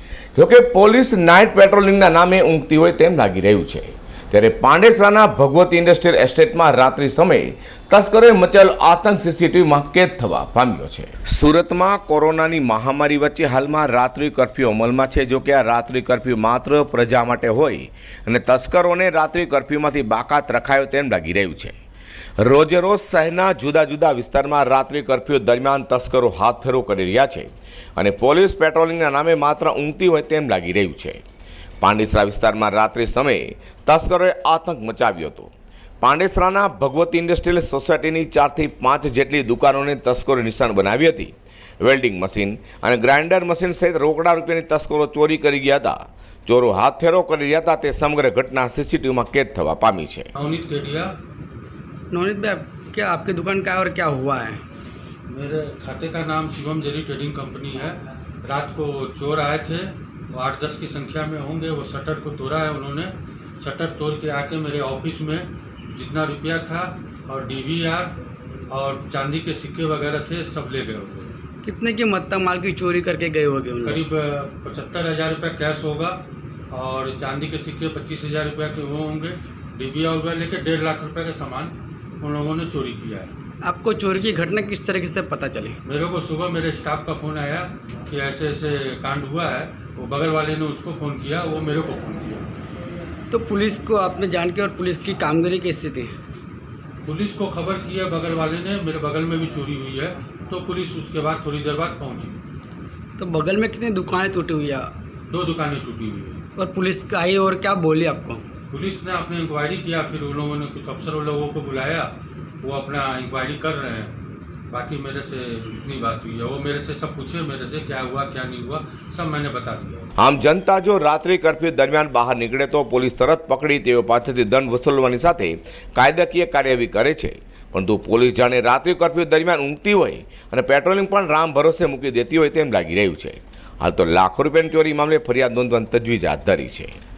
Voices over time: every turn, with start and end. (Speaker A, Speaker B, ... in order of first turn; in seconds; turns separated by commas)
Speaker A: 0.3-21.8, Speaker A: 22.4-31.2, Speaker A: 31.8-46.0, Speaker A: 46.5-50.3, Speaker B: 50.3-51.1, Speaker C: 52.1-54.6, Speaker B: 55.3-68.1, Speaker B: 68.7-71.4, Speaker C: 71.6-74.0, Speaker B: 73.8-76.2, Speaker B: 76.7-83.3, Speaker C: 83.6-85.8, Speaker B: 85.8-92.5, Speaker C: 93.3-96.1, Speaker B: 97.0-102.4, Speaker C: 103.2-104.9, Speaker B: 105.3-106.4, Speaker C: 106.6-108.4, Speaker B: 108.7-112.1, Speaker B: 112.6-114.1, Speaker B: 114.7-120.1, Speaker A: 120.2-137.0